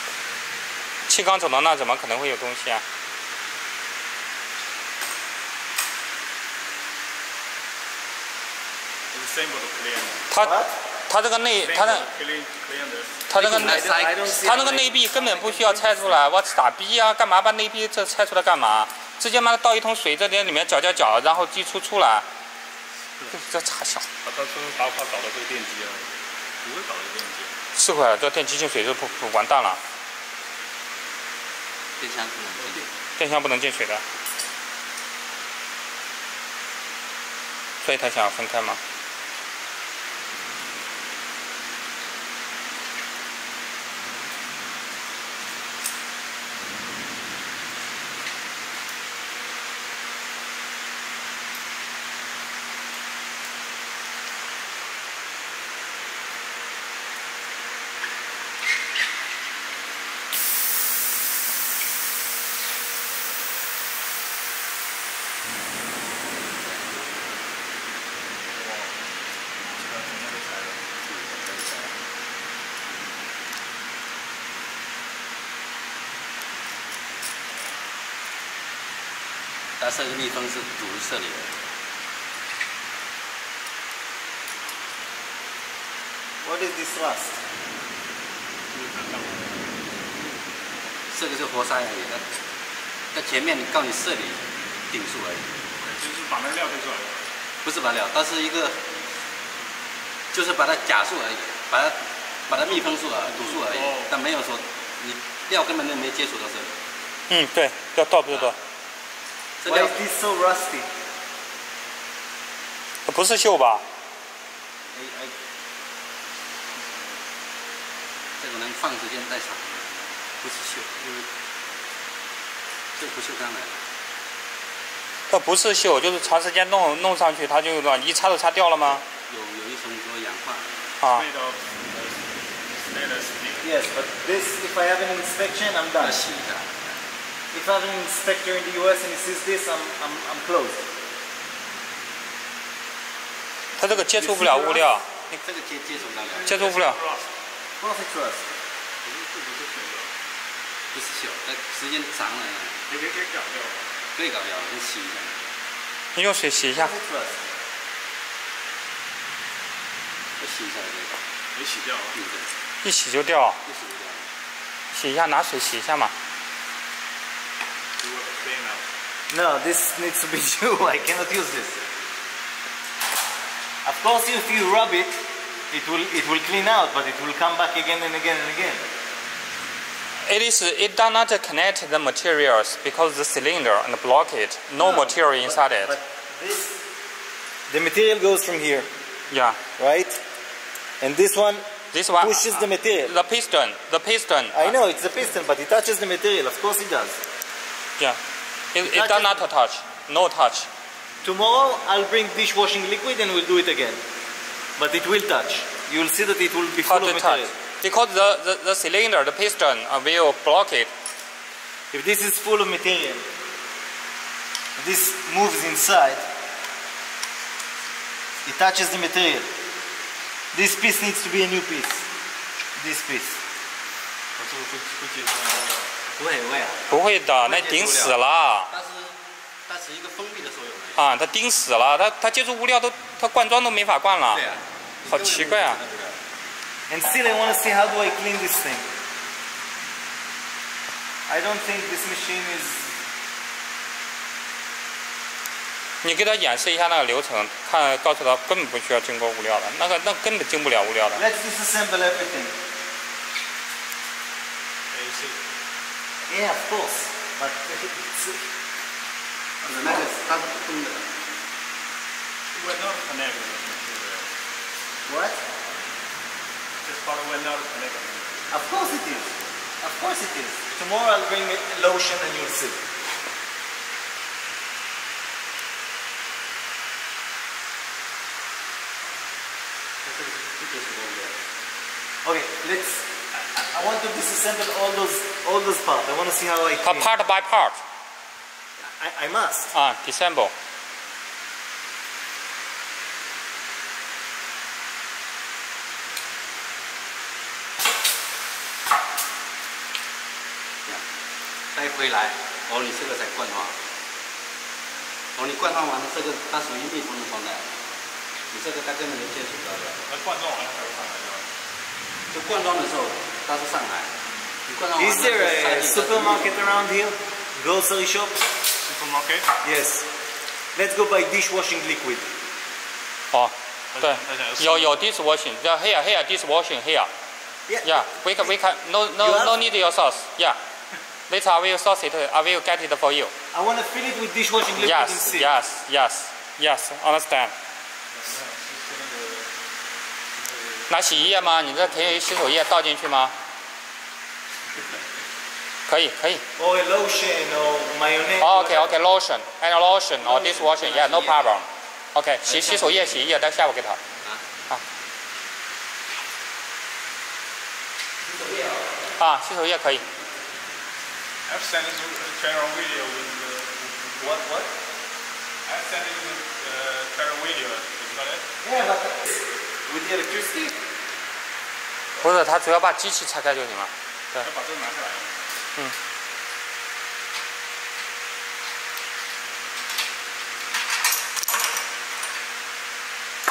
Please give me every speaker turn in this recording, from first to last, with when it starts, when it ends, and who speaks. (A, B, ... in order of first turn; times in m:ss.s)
0:01.1-0:02.8 A
0:09.1-0:10.3 B
0:10.3-0:10.6 A
0:10.4-0:10.7 C
0:11.1-0:12.1 A
0:11.6-0:13.2 B
0:13.3-0:22.2 A
0:13.3-0:14.4 D
0:13.4-0:16.2 C
0:23.3-0:24.0 A
0:24.2-0:26.1 B
0:26.6-0:27.5 B
0:27.8-0:29.8 A
0:32.0-0:32.9 D
0:33.2-0:34.0 A
0:37.8-0:38.8 A
1:08.5-1:09.0 B
1:09.7-1:10.8 B
1:11.1-1:11.9 D
1:17.5-1:17.8 B
1:19.8-1:21.6 D
1:26.4-1:27.4 C
1:28.7-1:29.8 B
1:31.1-1:32.4 D
1:33.1-1:35.5 D
1:35.8-1:37.2 B
1:37.6-1:38.8 D
1:40.3-1:46.8 D
1:42.5-1:44.2 B
1:47.3-1:48.6 A
1:49.6-1:50.0 D
1:49.6-1:50.9 C
1:53.1-1:53.8 A
1:54.9-1:55.3 C
1:56.8-1:57.1 B
1:58.4-2:01.3 D
2:03.0-2:03.8 D
2:05.3-2:09.0 A
2:09.3-2:11.0 D
2:11.0-2:11.3 A
2:11.1-2:13.7 B
2:13.6-2:16.2 C
2:16.0-2:17.0 D
2:17.5-2:20.8 C
2:23.8-2:25.1 A
2:24.2-2:26.7 D
2:26.2-2:27.2 B
2:26.5-2:27.0 A
2:27.8-2:28.5 C
2:29.0-2:30.1 B
2:30.9-2:32.9 D
2:32.9-2:33.9 B
2:34.2-2:35.6 D
2:36.2-2:36.9 A
2:36.7-2:37.4 C
2:40.4-2:41.2 D
2:41.5-2:42.2 B
2:42.2-2:42.5 D
2:42.8-2:43.6 A
2:43.6-2:44.3 D
2:44.9-2:46.1 A
2:48.0-2:48.8 B
2:49.3-2:51.8 C
2:53.8-2:58.8 C
3:00.2-3:05.9 A
3:04.8-3:06.8 C
3:07.7-3:08.9 C
3:09.3-3:09.6 A
3:09.8-3:10.2 C
3:11.0-3:11.7 C
3:11.9-3:14.7 A
3:12.2-3:13.2 C
3:14.5-3:17.2 C
3:18.7-3:20.7 A
3:18.8-3:19.4 C
3:21.2-3:24.0 C
3:24.8-3:27.5 C
3:26.8-3:30.9 A
3:31.9-3:33.3 C
3:34.8-3:36.3 C
3:38.4-3:39.5 C
3:40.5-3:42.1 C
3:42.8-3:43.4 C
3:44.4-3:46.9 D
3:46.9-3:48.7 A
3:47.4-3:51.1 D
3:51.0-3:54.4 A
3:54.3-3:56.2 D
3:55.1-3:55.8 A
3:56.9-3:58.9 C
4:01.3-4:03.0 C
4:06.0-4:11.2 A
4:11.1-4:12.5 C
4:14.9-4:15.4 B
4:16.3-4:18.4 C
4:19.6-4:21.1 D
4:19.7-4:20.2 C
4:22.5-4:24.3 B
4:25.1-4:25.4 C
4:26.8-4:28.3 B
4:28.5-4:32.8 C
4:40.0-4:41.4 D
4:42.2-4:47.1 C
4:46.8-4:47.8 A
4:48.9-4:49.7 C
4:49.7-4:50.5 A
5:01.7-5:03.8 D
5:05.4-5:07.8 D
5:08.5-5:10.0 D
5:10.1-5:11.5 B
5:12.3-5:14.1 D
5:14.7-5:16.6 D
5:15.0-5:18.4 C
5:18.8-5:19.5 B
5:19.6-5:20.1 C
5:20.8-5:22.3 C
5:23.3-5:27.1 A
5:23.9-5:25.0 B
5:27.7-5:28.5 C
5:27.8-5:30.6 A
5:29.2-5:29.7 C
5:31.3-5:33.3 A
5:33.5-5:35.5 C
5:34.8-5:37.5 A
5:38.1-5:39.5 B
5:40.4-5:42.2 B
5:40.9-5:43.3 A
5:45.9-5:46.4 A
5:46.6-5:48.8 C
5:48.4-5:54.0 A
5:50.2-5:51.5 D
5:52.4-5:53.1 D
5:58.2-5:59.1 D
5:59.2-6:00.0 A
6:01.5-6:04.3 B
6:04.2-6:04.7 C
6:05.7-6:08.5 B
6:08.6-6:10.8 C
6:12.2-6:13.9 A
6:14.4-6:15.3 B